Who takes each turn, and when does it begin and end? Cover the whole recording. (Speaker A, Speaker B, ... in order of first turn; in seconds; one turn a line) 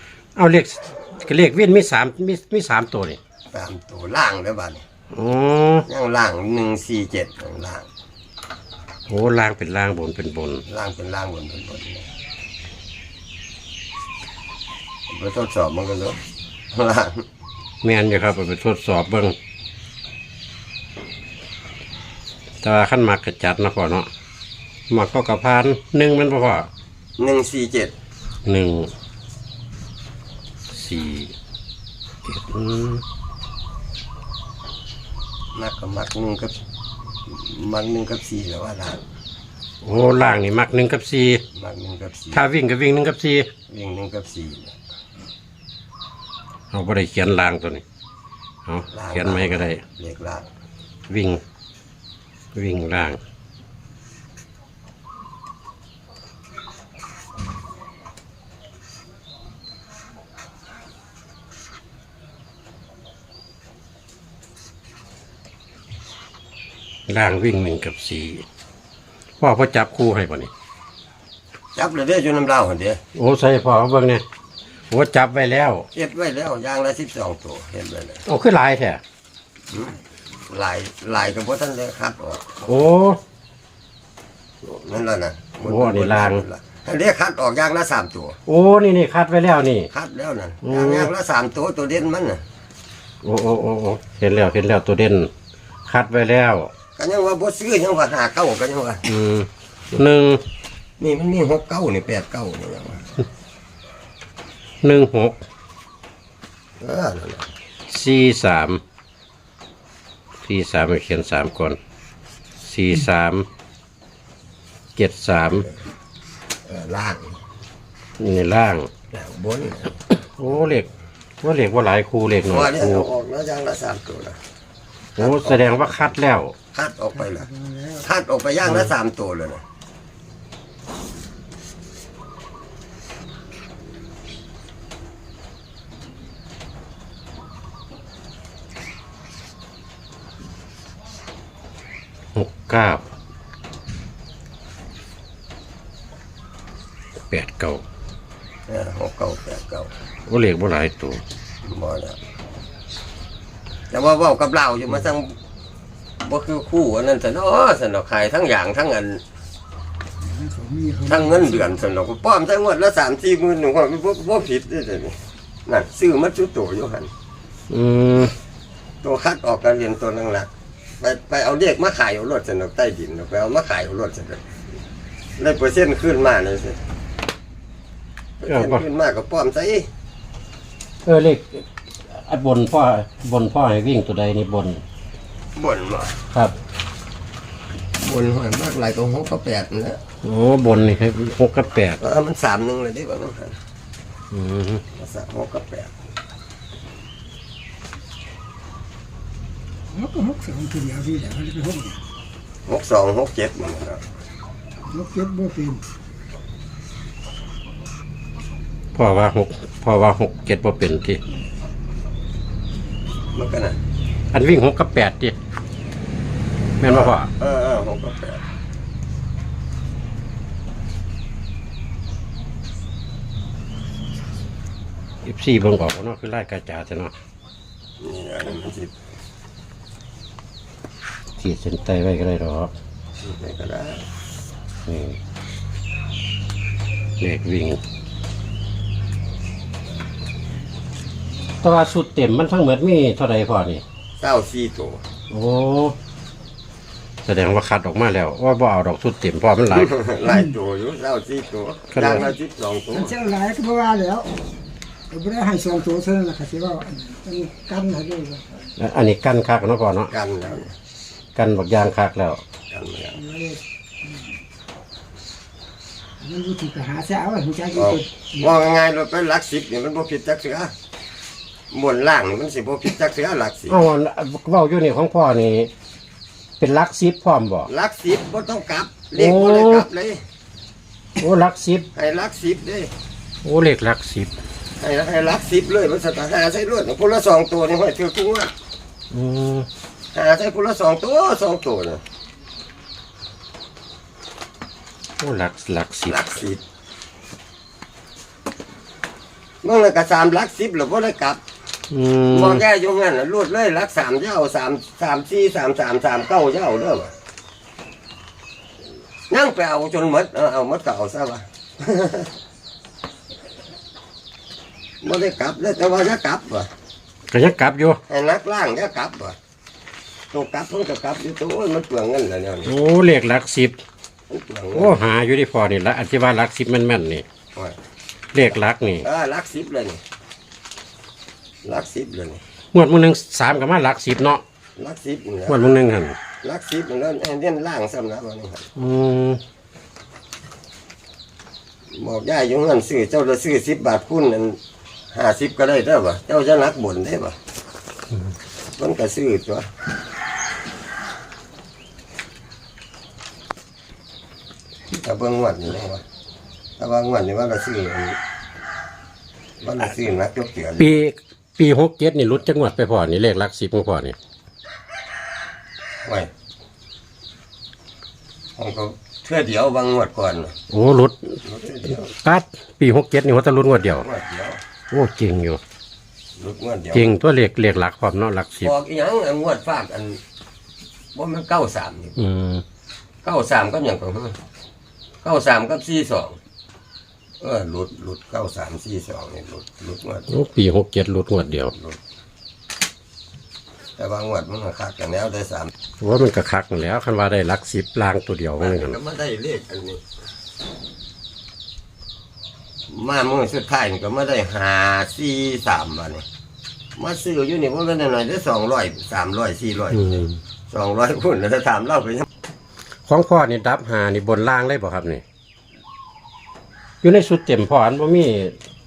Speaker A: 0.3-3.2
Speaker B: 3.5-4.8
Speaker A: 5.1-5.8
Speaker B: 5.8-7.9
Speaker A: 9.1-10.6
Speaker B: 10.7-12.1
Speaker B: 15.1-16.2
Speaker B: 16.7-17.2
Speaker A: 17.8-19.4
Speaker A: 22.6-24.1
Speaker A: 24.9-26.7
Speaker B: 27.2-27.9
Speaker A: 28.4-28.9
Speaker A: 30.7-31.3
Speaker A: 32.2-33.0
Speaker B: 35.5-36.5
Speaker B: 37.3-39.0
Speaker A: 39.8-41.4
Speaker B: 41.5-42.4
Speaker A: 42.3-43.5
Speaker B: 43.7-44.7
Speaker A: 46.7-47.8
Speaker A: 48.6-49.8
Speaker B: 48.9-50.5
Speaker A: 51.1-51.4
Speaker A: 52.5-53.2
Speaker A: 67.1-68.4
Speaker A: 69.4-70.5
Speaker B: 71.8-73.0
Speaker A: 73.1-74.2
Speaker A: 74.9-75.9
Speaker B: 75.9-78.2
Speaker A: 78.2-79.0
Speaker B: 80.5-82.7
Speaker A: 82.7-83.2
Speaker B: 84.6-88.4
Speaker A: 85.6-86.4
Speaker A: 88.5-89.9
Speaker B: 89.9-92.4
Speaker A: 90.6-91.1
Speaker A: 93.2-95.3
Speaker A: 95.8-96.7
Speaker B: 97.0-99.0
Speaker A: 99.0-100.4
Speaker B: 101.0-103.1
Speaker A: 104.8-105.4
Speaker B: 106.8-107.5
Speaker A: 107.9-108.8
Speaker A: 110.4-111.8
Speaker A: 112.6-113.5
Speaker A: 115.0-115.7
Speaker B: 116.7-117.3
Speaker A: 118.2-118.9
Speaker B: 119.1-120.0
Speaker A: 120.4-120.9
Speaker A: 121.4-123.0
Speaker B: 122.5-124.4
Speaker A: 125.2-126.5
Speaker B: 125.2-126.0
Speaker B: 126.7-129.6
Speaker C: 127.5-127.9
Speaker A: 142.3-143.0
Speaker A: 147.3-147.8
Speaker B: 148.7-149.9
Speaker A: 150.3-151.2
Speaker B: 151.6-152.2
Speaker B: 153.9-155.3
Speaker B: 156.2-159.2
Speaker C: 160.3-161.3
Speaker B: 161.1-167.1
Speaker A: 167.7-168.3
Speaker B: 169.0-174.4
Speaker B: 175.4-176.8
Speaker B: 178.4-179.9
Speaker A: 178.5-178.8
Speaker A: 181.0-184.8
Speaker B: 185.6-186.2
Speaker B: 188.0-190.0
Speaker A: 190.2-192.0
Speaker B: 192.0-193.6
Speaker A: 194.3-194.8
Speaker B: 194.9-195.9
Speaker C: 199.9-202.0
Speaker B: 202.7-204.0
Speaker C: 204.9-205.8
Speaker A: 208.9-211.2
Speaker B: 213.3-213.8
Speaker A: 214.3-215.3
Speaker A: 216.8-217.3
Speaker B: 216.8-218.4
Speaker A: 225.2-227.1
Speaker B: 228.0-228.9
Speaker A: 231.4-232.7
Speaker B: 233.2-234.1
Speaker A: 234.9-235.2
Speaker A: 237.2-237.8
Speaker A: 241.6-243.8
Speaker B: 244.2-245.0
Speaker A: 245.3-245.9
Speaker A: 247.2-249.9
Speaker B: 249.7-253.2
Speaker A: 251.9-252.2
Speaker C: 253.0-254.3
Speaker C: 255.1-258.6
Speaker A: 258.8-260.1
Speaker B: 260.1-260.7
Speaker A: 261.4-262.4
Speaker B: 262.7-263.2
Speaker C: 263.3-263.6
Speaker C: 266.2-267.9
Speaker B: 267.7-270.7
Speaker B: 271.7-273.8
Speaker A: 273.7-275.7
Speaker A: 276.6-277.7
Speaker B: 277.7-280.2
Speaker A: 279.1-279.9
Speaker A: 281.2-281.9
Speaker B: 281.9-282.9
Speaker A: 283.4-284.3
Speaker B: 284.8-288.5
Speaker A: 289.1-289.7
Speaker B: 290.1-292.0
Speaker A: 295.2-296.2
Speaker B: 296.1-296.6
Speaker B: 299.6-301.4
Speaker A: 301.9-302.6
Speaker B: 302.3-307.1
Speaker B: 309.3-312.3
Speaker B: 315.0-316.7
Speaker A: 317.3-318.0
Speaker B: 318.1-319.4
Speaker B: 320.3-322.8
Speaker A: 322.6-323.8
Speaker B: 324.3-325.0
Speaker A: 324.7-327.2
Speaker A: 328.3-329.1
Speaker B: 329.0-330.0
Speaker B: 331.6-332.4
Speaker A: 332.7-334.4
Speaker B: 334.8-335.6
Speaker A: 335.5-336.2
Speaker B: 336.4-338.7
Speaker A: 338.8-339.4
Speaker B: 341.9-344.6
Speaker B: 345.1-347.4
Speaker B: 348.8-349.7
Speaker B: 354.9-356.0
Speaker B: 356.8-358.2
Speaker B: 359.6-360.9
Speaker A: 360.8-364.1
Speaker B: 366.0-366.3
Speaker B: 368.6-370.5
Speaker A: 370.7-371.4
Speaker B: 371.4-372.1
Speaker A: 371.9-374.1
Speaker B: 374.0-374.6
Speaker A: 374.9-375.6
Speaker B: 376.4-377.1
Speaker A: 376.9-378.7
Speaker B: 378.6-380.2
Speaker B: 381.1-382.2
Speaker A: 382.2-382.6
Speaker B: 383.2-384.4
Speaker B: 385.2-386.4
Speaker B: 387.4-390.4
Speaker A: 390.3-391.7
Speaker B: 394.0-395.7
Speaker A: 396.0-398.9
Speaker B: 398.6-400.0
Speaker B: 402.9-406.2
Speaker B: 407.0-412.2
Speaker A: 410.0-410.4
Speaker A: 413.1-415.2
Speaker A: 417.0-418.5